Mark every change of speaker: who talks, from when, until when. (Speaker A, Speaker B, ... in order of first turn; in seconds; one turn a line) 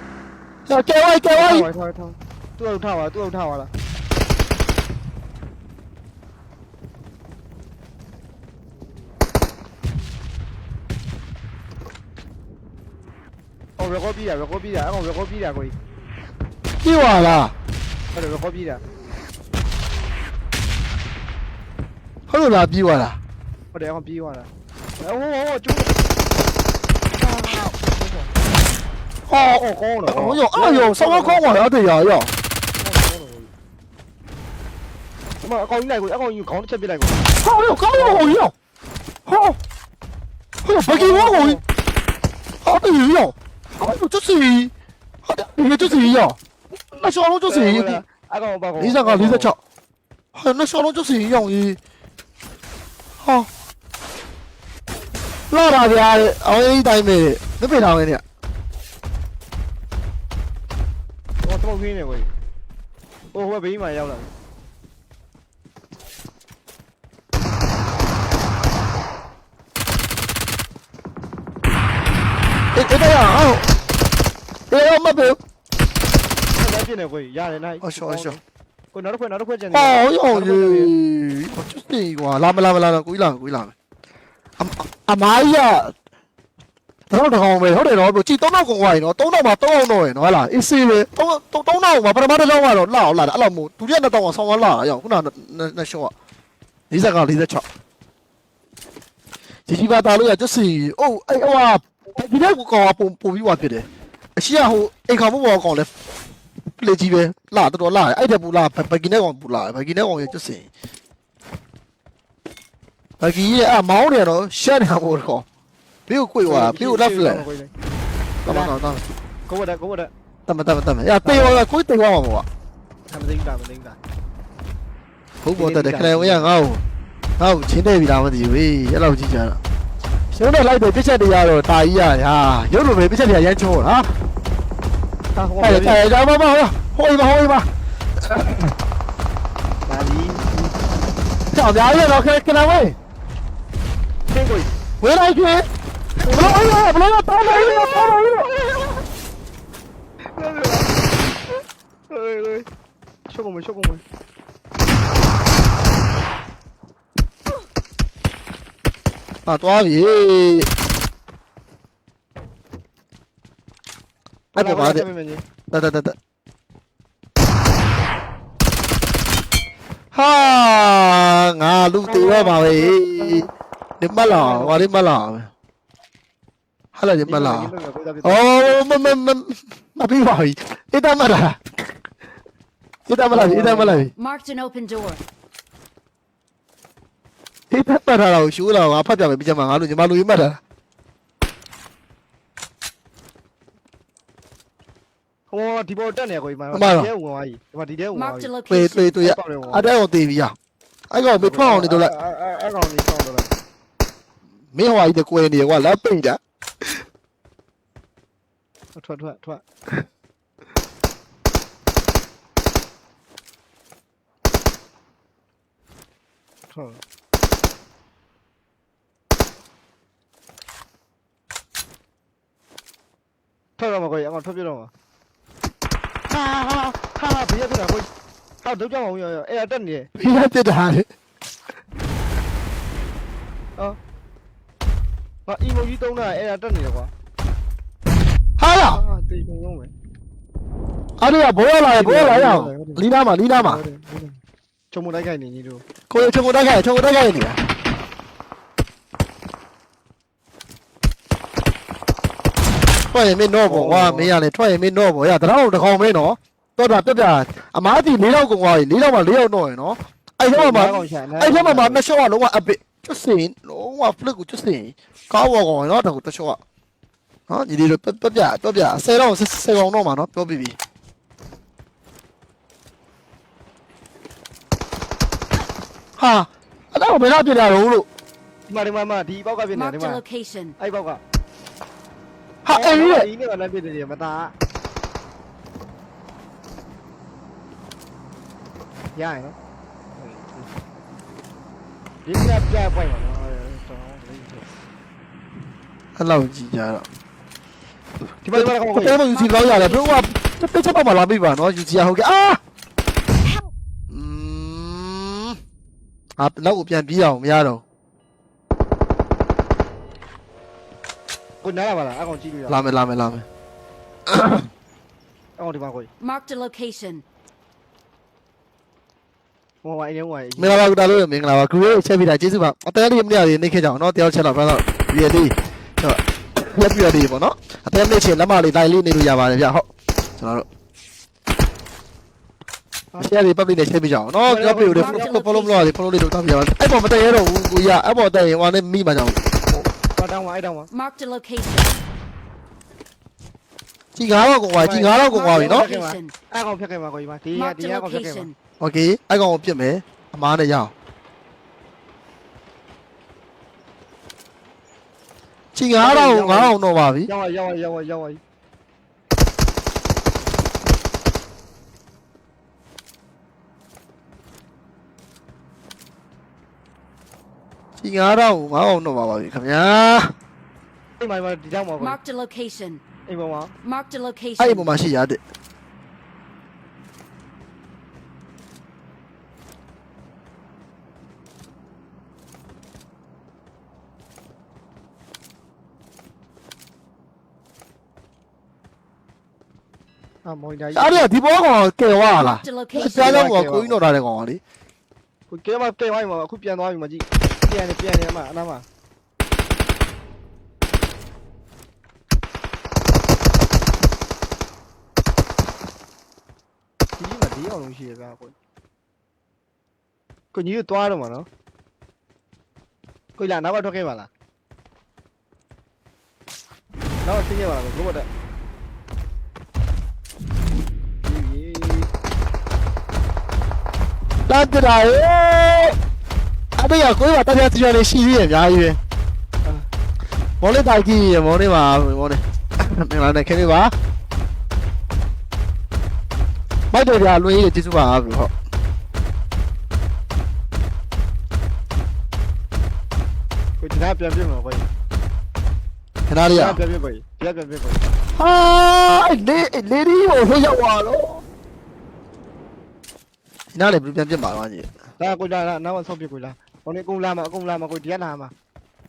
Speaker A: 0.7-1.7
Speaker B: 1.3-3.7
Speaker B: 13.8-15.8
Speaker A: 16.8-17.5
Speaker B: 18.1-18.8
Speaker A: 22.3-23.2
Speaker B: 23.7-25.9
Speaker B: 27.1-28.3
Speaker A: 29.3-32.3
Speaker B: 29.4-31.6
Speaker B: 32.8-33.5
Speaker B: 35.4-37.3
Speaker A: 37.4-38.5
Speaker B: 37.9-38.4
Speaker A: 39.2-39.6
Speaker A: 40.6-41.6
Speaker B: 40.9-41.6
Speaker A: 42.6-44.7
Speaker A: 45.2-46.4
Speaker A: 46.9-48.0
Speaker B: 47.5-49.5
Speaker A: 48.8-49.6
Speaker A: 50.3-51.8
Speaker A: 53.2-53.5
Speaker A: 55.5-58.2
Speaker B: 61.4-62.3
Speaker B: 63.3-64.3
Speaker A: 72.7-73.6
Speaker A: 74.7-75.4
Speaker B: 76.5-78.4
Speaker A: 77.8-78.4
Speaker B: 78.9-80.9
Speaker A: 79.7-83.7
Speaker A: 84.6-85.9
Speaker A: 87.1-96.1
Speaker A: 96.9-97.6
Speaker A: 99.7-105.9
Speaker A: 106.7-110.7
Speaker A: 113.2-115.4
Speaker A: 116.1-117.4
Speaker B: 116.4-117.7
Speaker A: 118.4-119.0
Speaker B: 118.5-118.9
Speaker B: 119.5-120.1
Speaker A: 120.5-122.5
Speaker B: 121.2-121.7
Speaker B: 123.1-124.0
Speaker A: 125.4-126.8
Speaker B: 125.5-126.5
Speaker A: 127.4-129.6
Speaker A: 130.3-134.2
Speaker B: 135.3-136.0
Speaker A: 135.6-137.7
Speaker A: 138.3-138.7
Speaker B: 139.8-140.8
Speaker A: 141.5-142.9
Speaker B: 144.3-144.7
Speaker A: 145.0-145.7
Speaker B: 146.2-146.6
Speaker A: 146.2-148.5
Speaker B: 147.4-148.8
Speaker B: 150.3-151.6
Speaker B: 152.1-152.7
Speaker B: 153.3-154.0
Speaker A: 159.4-160.7
Speaker A: 164.5-165.1
Speaker B: 164.6-165.4
Speaker A: 165.7-166.1
Speaker A: 170.1-173.5
Speaker B: 172.0-173.5
Speaker A: 174.0-175.5
Speaker B: 174.2-174.8
Speaker A: 176.9-177.7
Speaker B: 177.2-178.8
Speaker A: 178.2-181.8
Speaker A: 183.1-184.1
Speaker B: 183.3-184.1
Speaker C: 184.1-185.2
Speaker A: 187.7-190.6
Speaker B: 195.5-198.5
Speaker A: 196.7-197.1
Speaker C: 198.1-199.1
Speaker A: 198.7-200.5
Speaker B: 199.2-199.9
Speaker A: 201.1-202.1
Speaker B: 201.4-203.5
Speaker A: 204.7-206.9
Speaker B: 208.9-209.6
Speaker B: 216.7-217.0
Speaker B: 223.8-224.9
Speaker B: 226.3-228.1
Speaker B: 228.6-230.1
Speaker A: 230.2-231.1
Speaker B: 235.4-237.1
Speaker A: 238.6-239.0
Speaker B: 238.9-239.9
Speaker A: 241.2-243.8
Speaker B: 241.9-244.4
Speaker B: 244.9-245.8
Speaker A: 246.1-247.6
Speaker A: 253.1-266.6
Speaker B: 253.7-254.3
Speaker B: 260.5-262.0
Speaker A: 267.5-270.8
Speaker A: 276.2-278.1
Speaker B: 278.7-280.2
Speaker C: 279.7-280.7
Speaker B: 280.8-281.2
Speaker A: 282.6-283.3
Speaker B: 282.7-284.5
Speaker B: 289.1-289.6
Speaker B: 290.2-290.7
Speaker B: 292.2-294.7
Speaker A: 296.1-297.1
Speaker B: 298.4-299.2
Speaker A: 298.5-302.6
Speaker C: 299.3-300.3
Speaker C: 303.4-303.7
Speaker A: 304.1-305.6
Speaker A: 306.4-307.8
Speaker B: 311.6-312.8
Speaker A: 312.7-313.4
Speaker A: 314.3-314.7
Speaker B: 315.6-316.1
Speaker C: 316.2-317.2
Speaker B: 319.8-320.8
Speaker A: 320.6-329.9
Speaker A: 330.4-330.6
Speaker A: 333.2-339.8
Speaker B: 334.4-335.6
Speaker C: 334.9-335.8
Speaker B: 340.1-340.9
Speaker C: 340.9-342.0
Speaker A: 344.1-345.9
Speaker B: 344.7-348.5
Speaker C: 345.2-346.3
Speaker C: 347.5-348.5
Speaker A: 348.8-350.9
Speaker A: 355.7-357.3
Speaker B: 355.9-358.4
Speaker A: 368.0-370.3
Speaker B: 371.2-372.2
Speaker C: 372.0-373.0
Speaker B: 373.3-373.7
Speaker C: 373.8-374.9
Speaker A: 374.6-375.4
Speaker B: 390.4-391.3
Speaker A: 390.9-394.6
Speaker C: 392.3-393.3
Speaker B: 393.2-394.0
Speaker B: 395.5-398.9
Speaker B: 407.2-408.5
Speaker B: 410.5-411.5
Speaker B: 413.4-414.3
Speaker B: 417.2-418.3
Speaker B: 421.2-422.1
Speaker A: 424.5-425.9
Speaker A: 426.8-429.0
Speaker A: 430.6-433.9
Speaker A: 436.9-438.5
Speaker B: 443.8-444.9
Speaker A: 446.3-446.8
Speaker B: 446.5-448.0
Speaker A: 448.4-451.4
Speaker A: 453.7-454.9
Speaker B: 455.2-458.5